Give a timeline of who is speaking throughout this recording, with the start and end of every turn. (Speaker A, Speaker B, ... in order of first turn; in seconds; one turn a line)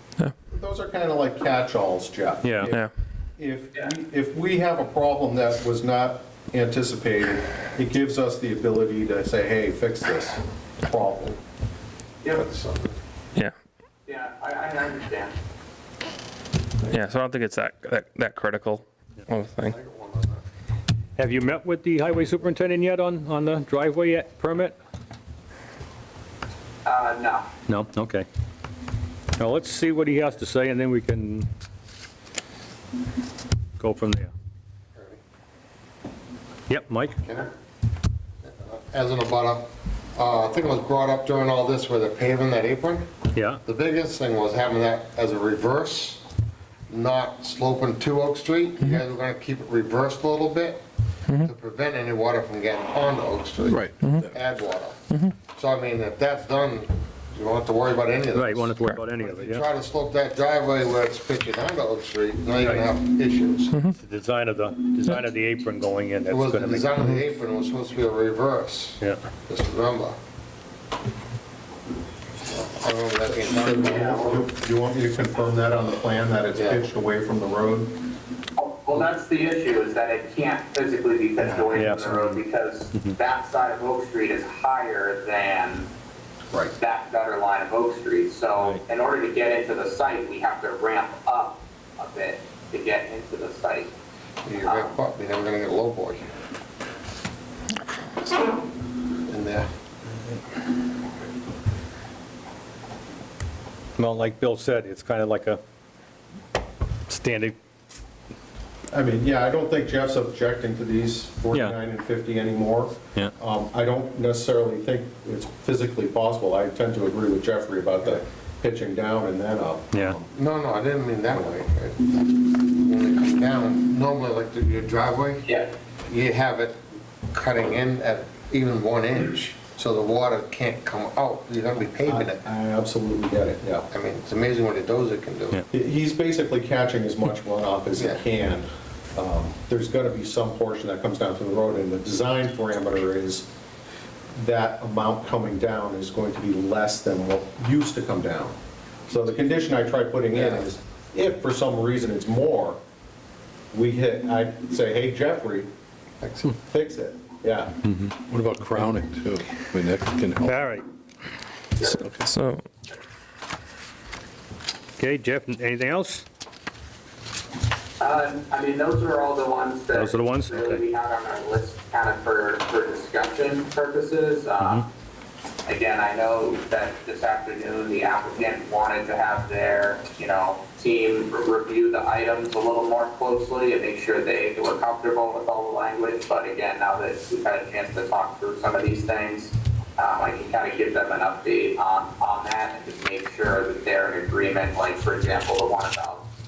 Speaker A: 0.5-11.4
Speaker B: 2.4-2.7
Speaker C: 2.6-2.9
Speaker D: 12.3-13.0
Speaker E: 14.1-15.3
Speaker C: 16.9-19.8
Speaker D: 19.6-20.4
Speaker B: 21.2-24.8
Speaker E: 26.8-27.5
Speaker B: 27.7-28.2
Speaker B: 29.4-31.5
Speaker B: 33.8-34.3
Speaker B: 36.7-37.2
Speaker D: 37.2-37.5
Speaker D: 38.4-43.1
Speaker B: 43.3-43.6
Speaker D: 43.6-46.2
Speaker D: 46.9-50.8
Speaker D: 51.4-63.7
Speaker F: 53.6-54.4
Speaker C: 54.0-54.3
Speaker C: 55.1-55.4
Speaker B: 58.3-59.7
Speaker B: 62.6-62.9
Speaker C: 63.7-64.0
Speaker B: 63.9-67.3
Speaker D: 66.3-70.2
Speaker D: 72.5-74.4
Speaker A: 73.3-78.0
Speaker D: 76.5-76.8
Speaker E: 78.6-85.9
Speaker B: 81.7-82.4
Speaker E: 86.7-93.9
Speaker D: 94.4-96.2
Speaker E: 94.6-94.9
Speaker D: 99.3-99.7
Speaker B: 104.0-105.6
Speaker B: 107.1-107.5
Speaker A: 108.9-120.3
Speaker B: 111.5-111.8
Speaker B: 119.9-120.2
Speaker D: 120.3-125.4
Speaker E: 125.4-125.7
Speaker D: 126.1-126.8
Speaker D: 127.3-132.4
Speaker A: 132.0-133.9
Speaker D: 133.9-135.6
Speaker A: 135.7-143.5
Speaker D: 138.0-138.2
Speaker A: 144.3-148.6
Speaker A: 149.1-152.8
Speaker D: 150.4-150.6
Speaker A: 153.7-155.7
Speaker D: 156.2-156.5
Speaker A: 156.5-157.7
Speaker F: 158.0-160.7
Speaker B: 160.4-160.8
Speaker E: 161.8-162.0
Speaker C: 161.8-162.7
Speaker F: 162.0-162.3
Speaker B: 165.0-166.2
Speaker E: 168.0-174.8
Speaker B: 169.9-170.8
Speaker B: 174.6-174.8
Speaker E: 175.7-196.3